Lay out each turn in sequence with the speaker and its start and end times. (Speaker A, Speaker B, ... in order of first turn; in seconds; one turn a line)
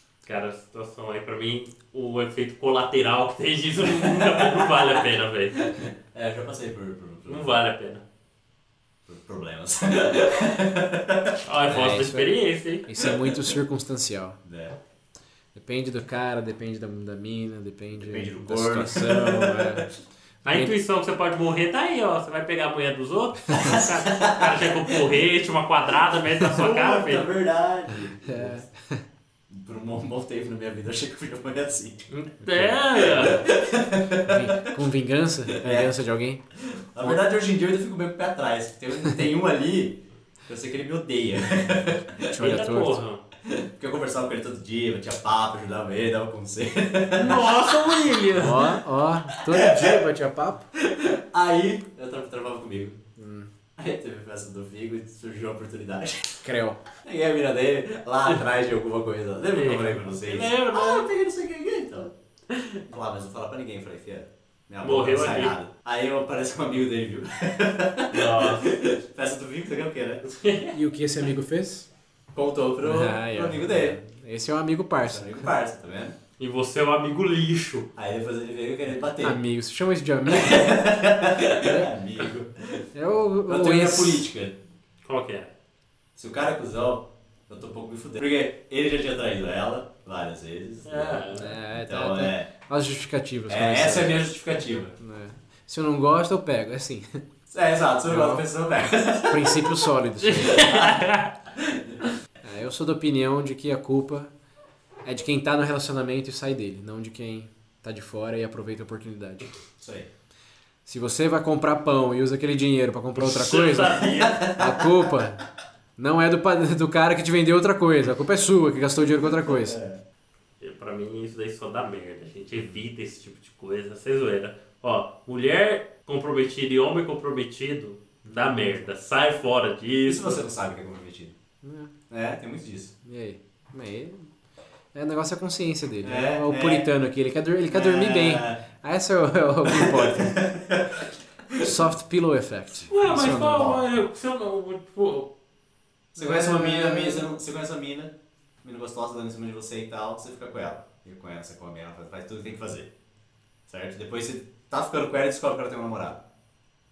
Speaker A: 0.2-5.7
Speaker B: 4.0-5.1
Speaker B: 5.6-7.5
Speaker A: 7.3-8.0
Speaker B: 9.1-11.4
Speaker A: 11.4-12.9
Speaker C: 11.7-14.4
Speaker B: 13.0-13.3
Speaker B: 14.4-14.8
Speaker C: 15.6-19.9
Speaker B: 17.9-19.9
Speaker A: 20.4-27.2
Speaker C: 20.4-20.8
Speaker B: 23.6-25.2
Speaker B: 26.6-28.7
Speaker C: 27.9-29.0
Speaker B: 29.5-32.0
Speaker A: 32.1-33.5
Speaker C: 32.4-32.8
Speaker B: 32.9-34.8
Speaker C: 34.2-36.4
Speaker B: 35.5-35.9
Speaker B: 36.7-42.4
Speaker C: 42.2-43.0
Speaker A: 42.4-43.2
Speaker B: 43.4-47.5
Speaker A: 47.1-48.8
Speaker C: 48.3-50.7
Speaker B: 49.4-50.0
Speaker B: 50.8-53.0
Speaker C: 53.2-53.5
Speaker B: 53.8-56.5
Speaker C: 56.4-56.8
Speaker B: 57.0-62.1
Speaker A: 59.5-61.1
Speaker A: 62.5-62.8
Speaker B: 62.9-70.2
Speaker A: 64.8-65.5
Speaker A: 68.1-68.7
Speaker A: 70.2-70.8
Speaker C: 70.7-71.9
Speaker B: 72.3-74.0
Speaker C: 72.8-75.5
Speaker B: 75.0-76.2
Speaker A: 76.4-77.9
Speaker B: 78.0-79.4
Speaker C: 79.2-80.8
Speaker B: 80.2-82.9
Speaker C: 81.6-81.9
Speaker C: 82.9-84.3
Speaker B: 83.5-84.6
Speaker A: 85.0-85.5
Speaker B: 86.2-92.5
Speaker A: 90.9-91.6
Speaker C: 91.3-94.3
Speaker B: 93.5-94.9
Speaker C: 94.9-97.1
Speaker B: 97.5-99.7
Speaker C: 98.1-98.5
Speaker C: 99.3-100.9
Speaker A: 100.2-101.3
Speaker B: 101.5-102.0
Speaker C: 102.4-104.3
Speaker C: 105.0-109.5
Speaker B: 109.8-110.1
Speaker C: 110.9-115.4
Speaker A: 113.2-114.5
Speaker B: 114.0-115.2
Speaker C: 116.0-119.8
Speaker B: 119.2-120.0
Speaker A: 120.6-130.4
Speaker C: 128.2-128.8
Speaker B: 130.1-131.4
Speaker C: 131.6-131.9
Speaker B: 132.1-132.9
Speaker C: 133.1-134.3
Speaker C: 134.9-140.5
Speaker B: 136.0-136.9
Speaker B: 137.7-138.6
Speaker B: 139.7-141.8
Speaker C: 141.6-143.6
Speaker A: 142.9-145.3
Speaker B: 143.1-143.9
Speaker B: 146.1-152.9
Speaker C: 146.2-147.3
Speaker A: 146.3-146.9
Speaker B: 153.7-156.2